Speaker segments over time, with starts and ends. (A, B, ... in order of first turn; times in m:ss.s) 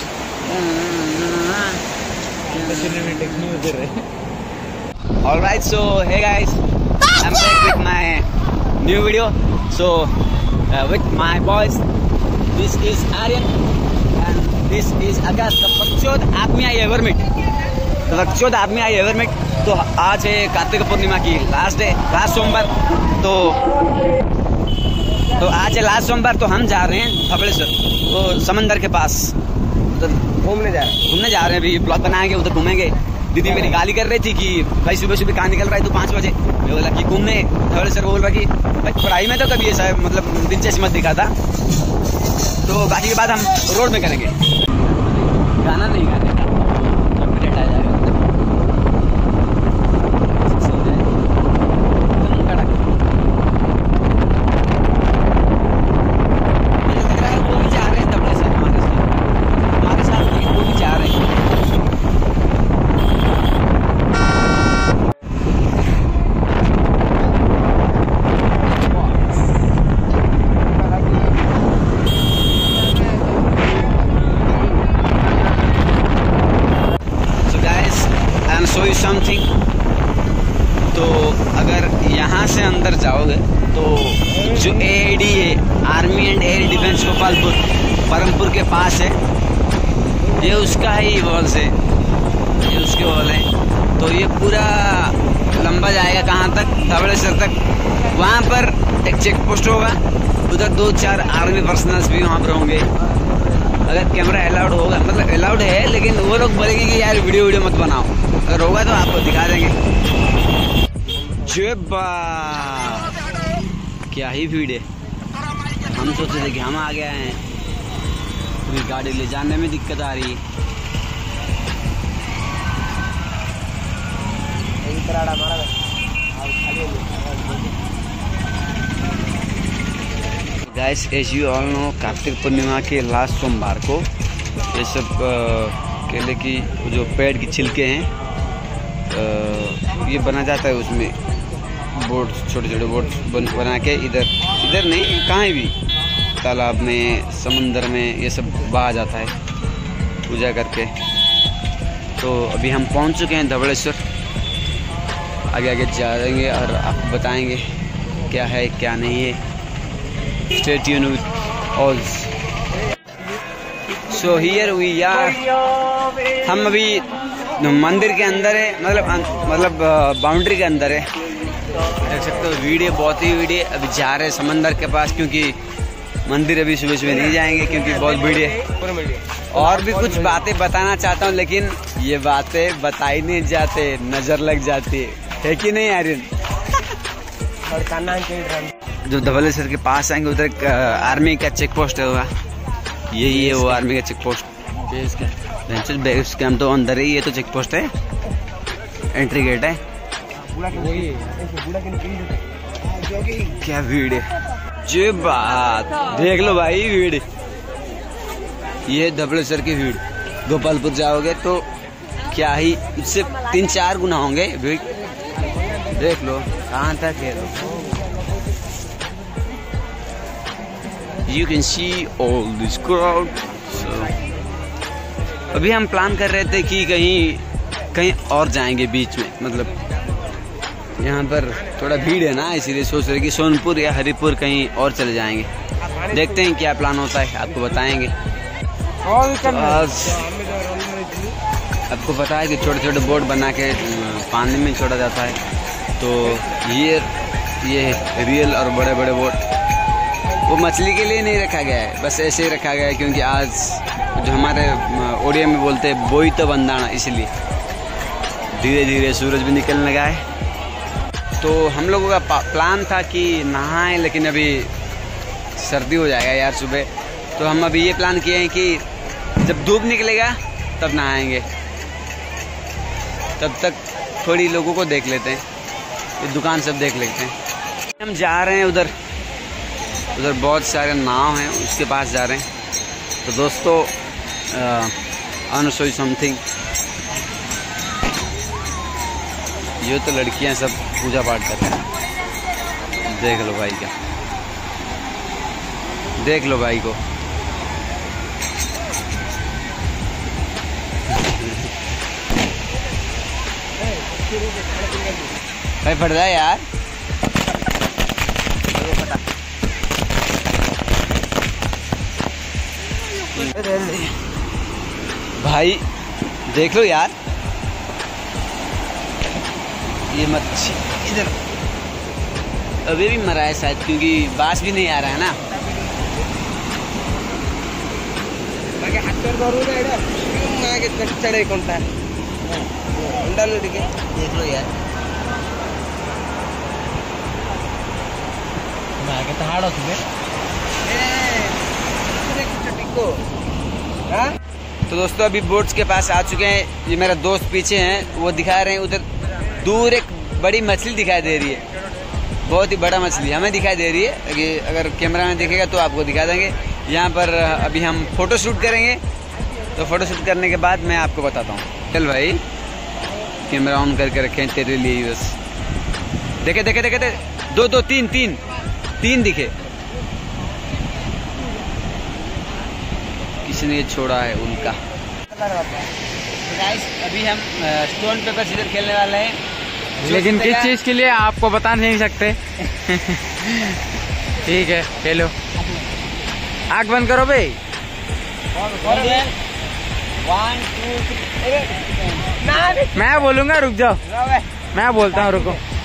0:00.4-0:01.8 A
0:02.5-0:03.8 A
0:02.5-0:03.1 B
0:02.7-0:03.9 C
0:05.2-0:08.2 A
0:08.8-0:10.1 A
0:10.7-0:11.8 A
0:12.5-0:13.5 A
0:14.2-0:17.2 A
0:18.1-0:23.6 A
0:25.4-0:29.3 A
0:29.9-0:30.2 A
0:30.4-0:31.0 B
0:31.0-0:41.3 A
0:33.4-0:33.8 B
0:42.6-0:48.4 A
0:50.0-0:51.1 A
0:52.1-0:53.0 A
0:56.8-0:59.1 A
0:59.8-1:01.3 A
1:10.9-1:11.2 B
1:17.4-1:19.5 A
1:20.9-1:29.2 A
1:30.3-1:31.7 A
1:32.6-1:42.9 A
1:43.8-1:49.7 A
1:51.1-1:51.5 B
1:51.4-1:53.2 A
1:54.1-1:54.8 A
1:55.9-1:57.4 A
1:58.6-2:00.4 A
2:04.8-2:05.7 B
2:06.3-2:07.7 B
2:10.7-2:14.1 A
2:14.7-2:18.1 A
2:19.1-2:21.1 A
2:21.9-2:25.7 A
2:26.4-2:29.3 A
2:30.3-2:30.9 A
2:32.2-2:34.0 A
2:35.5-2:37.6 A
2:38.3-2:39.4 A
2:40.5-2:42.3 A
2:44.1-2:45.4 A
2:46.4-2:47.0 A
2:47.6-2:51.1 A
2:52.0-2:55.6 A
2:56.3-2:58.6 A
2:57.1-3:00.5 B
2:59.5-3:06.3 A
3:07.6-3:08.7 B
3:09.0-3:12.3 A
3:13.1-3:14.5 A
3:13.3-3:13.8 C
3:14.9-3:15.3 C
3:15.7-3:17.9 A
3:19.1-3:19.8 A
3:20.5-3:23.5 B
3:20.6-3:21.2 C
3:23.4-3:24.3 A
3:24.8-3:27.2 A
3:28.9-3:31.6 A
3:32.3-3:34.9 A
3:35.9-3:37.7 A
3:41.2-3:44.2 A
3:45.5-3:49.7 A
3:51.0-3:55.5 A
3:55.9-3:56.4 B
3:56.1-3:58.1 A
3:59.0-4:01.4 B
3:59.3-4:00.2 A
4:01.9-4:05.4 A
4:06.0-4:07.1 A
4:07.6-4:09.4 A
4:10.4-4:17.3 A
4:18.6-4:20.2 A
4:21.4-4:24.7 A
4:25.6-4:28.8 A
4:29.4-4:31.4 A
4:33.4-4:35.4 A
4:36.2-4:37.3 A
4:38.0-4:38.9 A
4:40.1-4:42.4 A
4:43.2-4:43.9 A
4:44.5-4:44.9 A
4:45.5-4:46.4 A
4:49.8-4:51.8 A
4:53.1-4:53.9 A
4:56.2-4:57.0 A
5:01.1-5:01.7 A
5:03.8-5:05.3 B
5:05.8-5:06.6 A
5:08.7-5:09.2 A
5:13.3-5:14.1 A
5:15.4-5:15.8 A
5:16.5-5:17.1 A
5:20.1-5:21.3 A
5:22.8-5:25.4 A
5:25.6-5:26.0 B
5:28.8-5:31.8 B
5:32.5-5:34.1 B
5:34.2-5:34.7 A
5:39.4-5:40.0 B
5:40.8-5:41.6 B
5:42.1-5:43.2 B
5:44.9-5:49.0 A
5:49.6-5:51.6 A
5:52.4-5:59.0 A
5:59.8-6:02.4 A
6:03.4-6:05.4 A
6:06.4-6:08.4 A
6:09.0-6:09.5 A
6:13.4-6:14.8 A
6:15.3-6:15.9 B
6:16.4-6:19.4 A
6:20.0-6:20.7 A
6:20.0-6:23.8 C
6:24.4-6:25.3 C
6:26.7-6:27.6 C
6:28.6-6:29.3 B
6:28.8-6:29.3 A
6:30.2-6:32.4 A
6:32.4-6:33.1 B
6:32.9-6:34.0 C
6:34.0-6:35.6 B
6:34.7-6:35.6 C